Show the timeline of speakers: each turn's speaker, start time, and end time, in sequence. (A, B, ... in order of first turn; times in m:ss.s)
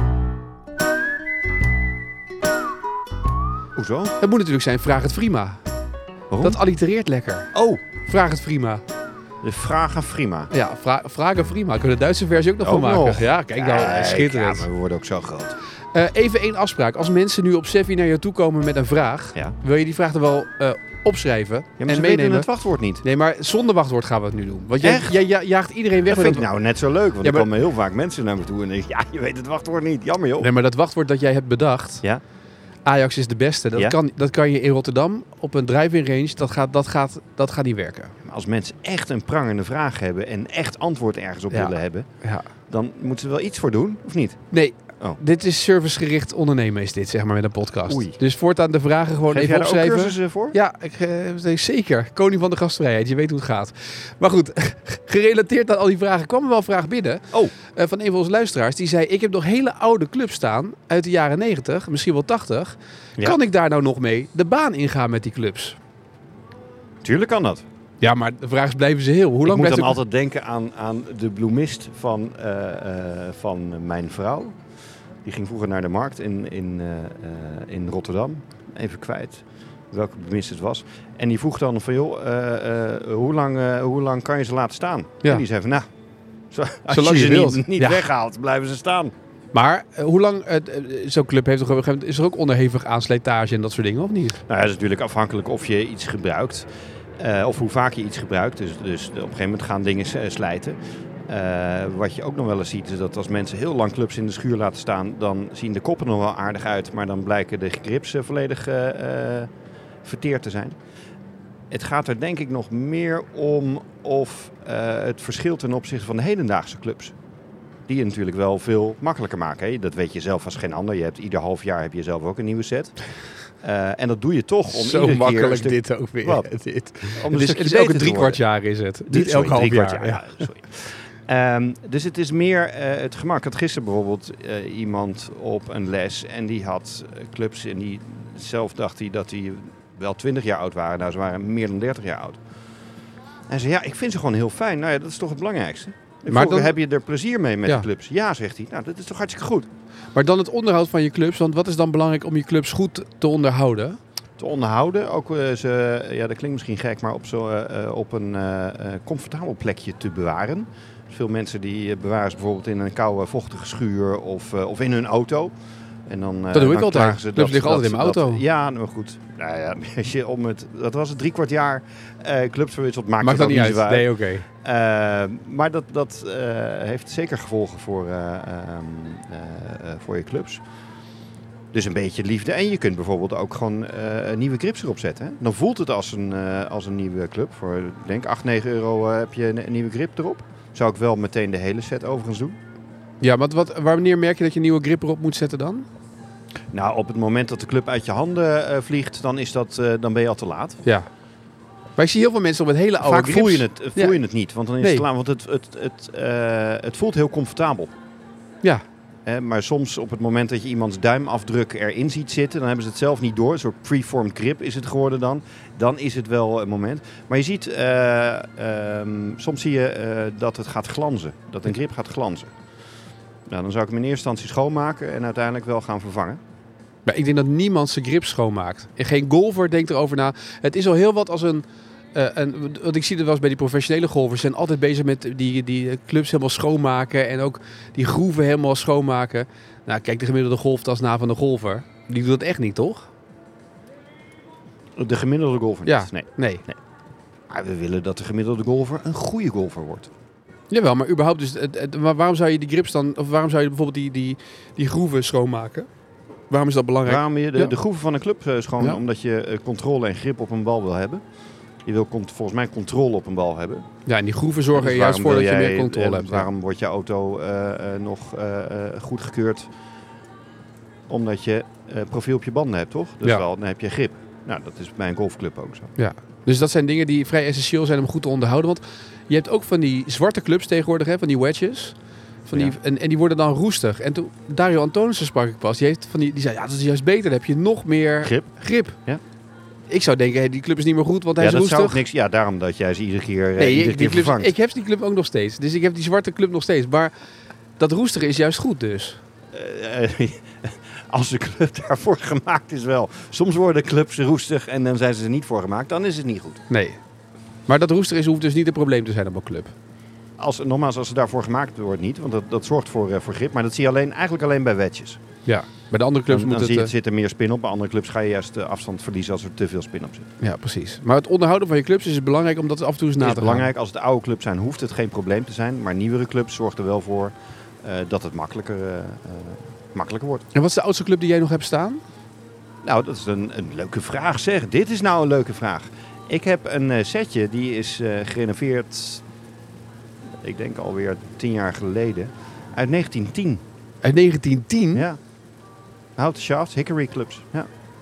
0:03.7-0:04.2 A
0:04.2-0:05.6 B
0:06.3-0:06.6 A
0:06.4-0:07.5 B
0:07.5-0:07.8 A
0:08.0-0:08.8 B
0:09.4-0:10.5 A
0:10.5-0:14.7 B
0:12.6-0:15.6 A
0:15.9-0:22.5 B
0:21.8-0:23.0 A
0:23.0-0:26.5 B
0:24.8-0:25.2 A
0:26.1-0:30.5 A
0:30.4-0:32.0 B
0:32.8-0:38.1 B
0:38.2-0:42.1 A
0:41.5-0:42.5 B
0:42.7-0:44.4 A
0:44.5-1:05.8 B
0:47.9-0:48.2 A
0:49.3-0:50.6 A
1:07.0-1:07.6 A
1:08.0-1:10.0 B
1:09.4-1:14.5 A
1:15.2-1:25.8 A
1:26.5-1:29.1 A
1:26.9-1:28.0 B
1:29.5-1:34.4 B
1:34.5-1:36.6 A
1:37.2-1:40.8 A
1:41.3-1:49.5 A
1:50.0-1:50.8 A
1:51.7-1:57.1 A
1:57.9-2:03.0 A
2:03.6-2:06.5 A
2:04.7-2:10.5 B
2:07.1-2:08.4 A
2:09.1-2:22.4 A
2:23.5-2:29.7 A
2:26.3-2:26.7 B
2:30.1-2:34.0 B
2:34.4-2:45.5 A
2:46.1-2:54.1 A
2:46.5-2:48.4 B
2:53.2-2:54.5 B
2:54.6-3:00.6 A
3:01.7-3:12.6 A
3:13.2-3:15.8 B
3:16.7-3:20.8 A
3:22.0-3:24.2 B
3:23.0-3:27.9 A
3:24.8-3:25.0 B
3:29.2-3:42.5 A
3:43.5-3:46.4 A
3:47.0-3:51.6 B
3:52.1-4:03.1 B
4:05.0-4:06.8 A
4:05.8-4:06.6 B
4:07.5-4:10.1 A
4:10.7-4:15.9 B
4:16.5-4:17.7 B
4:17.0-4:21.2 A
4:21.8-4:23.8 A
4:24.0-4:26.5 B
4:24.7-4:29.7 A
4:31.1-4:35.9 A
4:36.0-4:41.9 B
4:42.4-4:49.0 B
4:48.2-4:48.5 A
4:49.9-4:52.0 B
4:51.4-4:54.5 A
4:53.6-4:57.1 B
4:57.8-4:59.2 B
4:59.5-5:06.6 A
5:06.7-5:07.0 B
5:07.7-5:09.7 B
5:10.4-5:15.2 A
5:15.4-5:16.9 B
5:16.3-5:20.2 A
5:20.4-5:23.7 B
5:23.2-5:30.4 A
5:30.5-5:32.0 B
5:32.8-5:39.2 A
5:40.4-5:43.6 A
5:44.0-5:45.1 B
5:44.9-5:45.2 A
5:46.2-5:47.7 A